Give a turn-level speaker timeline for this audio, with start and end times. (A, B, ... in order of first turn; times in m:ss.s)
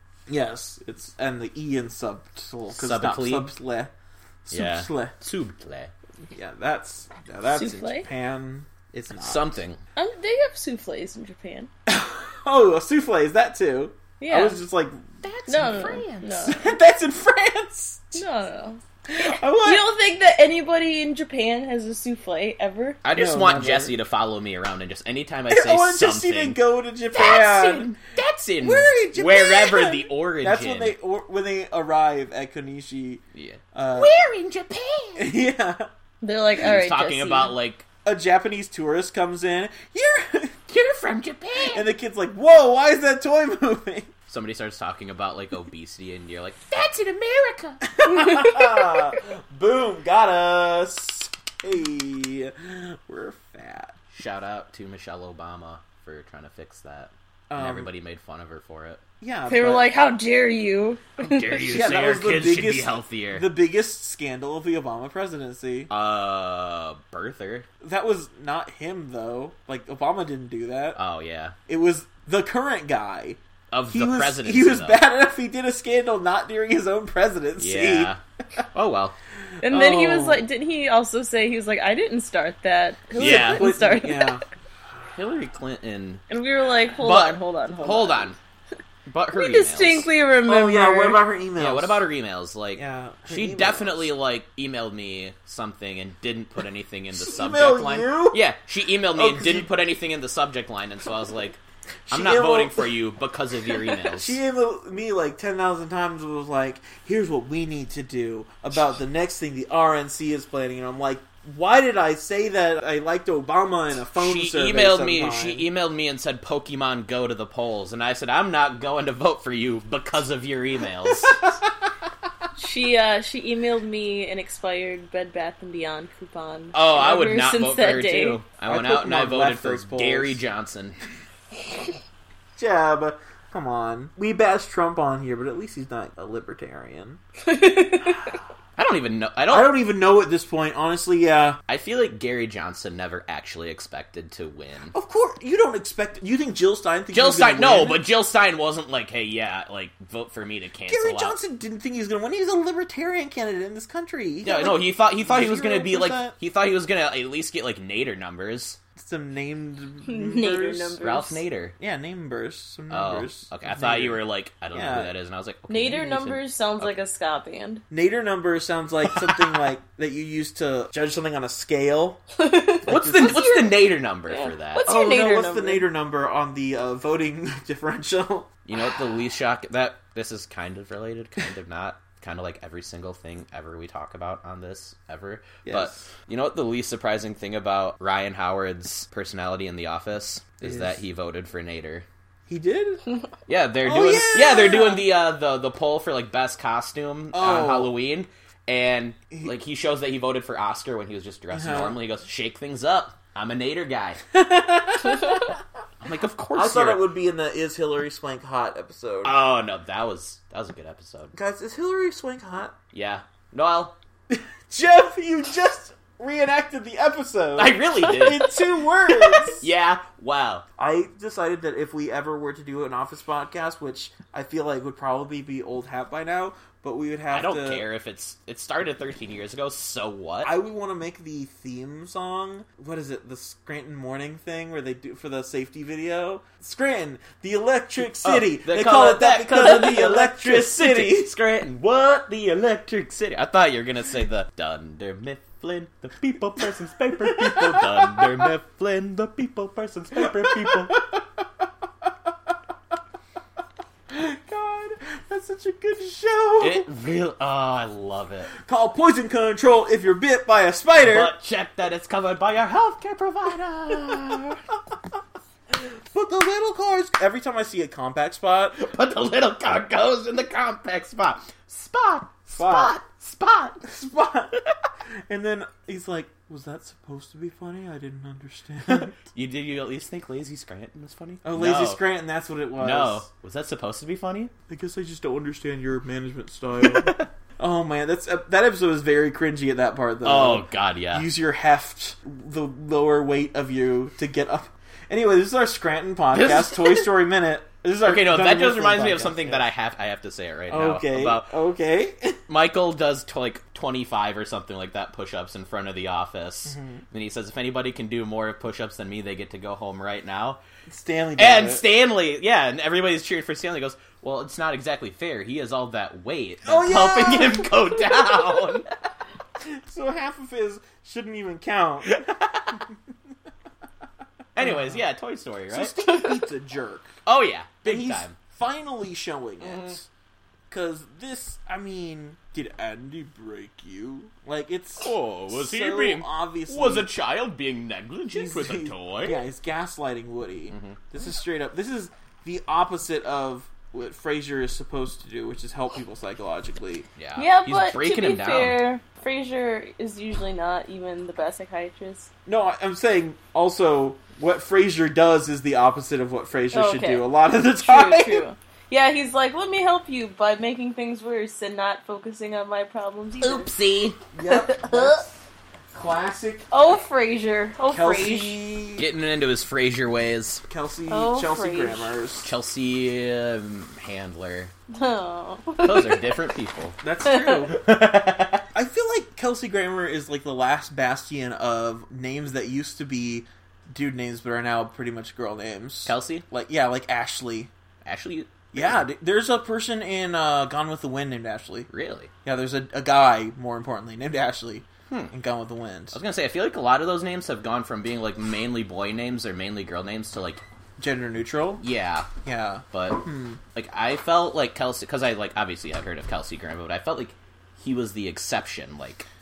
0:00.3-0:03.9 A
0:02.7-0:03.5 B
0:04.4-0:05.2 A
0:04.5-0:05.9 B
0:06.3-0:09.6 A
0:07.4-0:08.1 C
0:09.2-0:09.8 B
0:10.0-0:11.7 C
0:11.9-0:15.2 A
0:14.2-0:14.6 C
0:15.2-0:16.5 B
0:15.5-0:16.8 C
0:16.4-0:18.3 A
0:18.1-0:23.1 C
0:19.1-0:19.9 A
0:23.0-0:26.6 B
0:23.1-0:24.0 A
0:25.5-0:27.9 A
0:27.1-0:31.0 B
0:28.6-0:33.2 A
0:33.3-0:35.3 B
0:33.7-0:34.2 A
0:35.2-0:35.9 A
0:36.2-0:37.6 C
0:36.5-0:37.8 B
0:38.0-0:40.6 A
0:40.7-0:41.8 B
0:41.7-0:44.1 A
0:44.3-0:47.9 B
0:47.8-0:53.9 A
0:54.1-0:59.0 B
0:57.5-0:57.9 A
0:59.2-0:59.9 A
0:59.4-1:01.8 C
1:01.2-1:03.5 B
1:01.6-1:05.9 A
1:05.9-1:07.7 B
1:07.8-1:11.0 A
1:10.9-1:11.5 B
1:11.7-1:18.1 A
1:13.7-1:15.0 B
1:17.6-1:18.2 B
1:18.7-1:19.2 B
1:19.6-1:24.4 C
1:19.6-1:20.4 A
1:23.1-1:23.7 B
1:23.1-1:24.4 A
1:25.1-1:26.2 B
1:26.3-1:28.4 C
1:26.9-1:28.4 B
1:29.1-1:30.1 B
1:29.3-1:31.2 C
1:30.4-1:32.1 A
1:31.5-1:44.4 B
1:32.7-1:34.1 A
1:37.1-1:38.4 A
1:39.0-1:39.8 A
1:42.1-1:42.9 A
1:43.7-1:55.7 A
1:54.1-2:01.4 B
2:01.1-2:01.5 A
2:02.6-2:08.4 C
2:06.7-2:11.0 B
2:08.6-2:10.4 A
2:12.6-2:17.2 A
2:17.4-2:18.4 C
2:18.1-2:18.3 A
2:18.8-2:19.8 B
2:19.5-2:21.6 A
2:21.7-2:24.9 B
2:24.9-2:28.0 A
2:27.1-2:31.4 B
2:30.8-2:36.4 A
2:34.4-2:38.8 B
2:39.0-2:41.0 A
2:40.1-2:41.4 C
2:41.0-2:41.7 B
2:41.8-2:45.1 A
2:42.9-2:47.0 B
2:45.7-2:47.8 C
2:47.9-2:53.5 A
2:52.4-2:55.9 C
2:52.9-2:54.9 B
2:54.8-2:58.6 A
2:58.6-3:12.0 B
3:05.6-3:06.0 A
3:10.6-3:11.0 A
3:12.5-3:13.0 A
3:13.5-3:24.2 B
3:13.8-3:15.1 A
3:17.3-3:18.0 A
3:21.5-3:22.0 A
3:24.3-3:25.6 A
3:26.0-3:27.1 B
3:26.5-3:29.4 A
3:29.2-3:31.3 B
3:31.3-3:32.7 A
3:32.9-3:34.0 B
3:34.3-3:39.7 A
3:37.6-3:40.6 B
3:40.8-3:47.8 A
3:47.3-3:50.5 B
3:50.4-4:01.3 A
3:58.1-4:11.0 B
4:07.6-4:08.2 A
4:10.5-4:11.0 A
4:14.1-4:16.9 A
4:16.6-4:18.5 B
4:18.5-4:21.4 A
4:21.0-4:24.6 B
4:26.1-4:28.8 A
4:28.7-4:33.8 B
4:32.6-4:33.0 A
4:33.8-4:34.6 A
4:35.3-4:39.1 A
4:38.9-4:42.1 B
4:41.4-4:43.3 A
4:42.8-4:44.5 B
4:44.7-4:59.7 A
4:46.8-4:47.2 B
4:50.2-4:51.3 B
4:56.3-4:57.2 B
4:58.0-5:01.5 B
5:00.7-5:02.4 A
5:02.5-5:10.6 B
5:06.6-5:07.0 A
5:10.9-5:11.8 A
5:11.4-5:18.9 B
5:16.6-5:17.8 A
5:19.6-5:22.8 A
5:22.0-5:22.8 B
5:24.5-5:26.4 B
5:24.6-5:25.0 A
5:25.7-5:27.1 A
5:27.2-5:28.4 B
5:27.8-5:30.1 A
5:29.6-5:30.0 B
5:30.7-5:37.1 A
5:35.0-5:39.4 B
5:38.3-5:47.0 A
5:40.7-5:41.0 B
5:47.2-5:48.8 B
5:47.4-5:52.3 C
5:52.4-5:58.5 A
5:56.7-6:03.7 C
6:03.4-6:04.2 B
6:04.3-6:05.3 A
6:04.4-6:05.2 C
6:05.9-6:06.6 A
6:06.7-6:08.6 C
6:07.9-6:09.1 A
6:09.0-6:10.6 B
6:10.7-6:12.5 A
6:11.1-6:12.2 C
6:12.4-6:14.7 B
6:14.9-6:16.3 C
6:15.8-6:17.0 B
6:17.0-6:17.8 A
6:17.2-6:17.6 C
6:17.7-6:18.6 B
6:18.7-6:27.7 A
6:26.0-6:26.4 B
6:28.0-6:29.0 B
6:28.7-6:31.9 A
6:31.9-6:32.3 B
6:32.4-6:36.2 A
6:36.1-6:40.6 B
6:41.0-6:41.8 A
6:41.8-6:42.3 B
6:42.4-6:43.6 A
6:42.9-6:43.2 B
6:43.7-6:49.3 B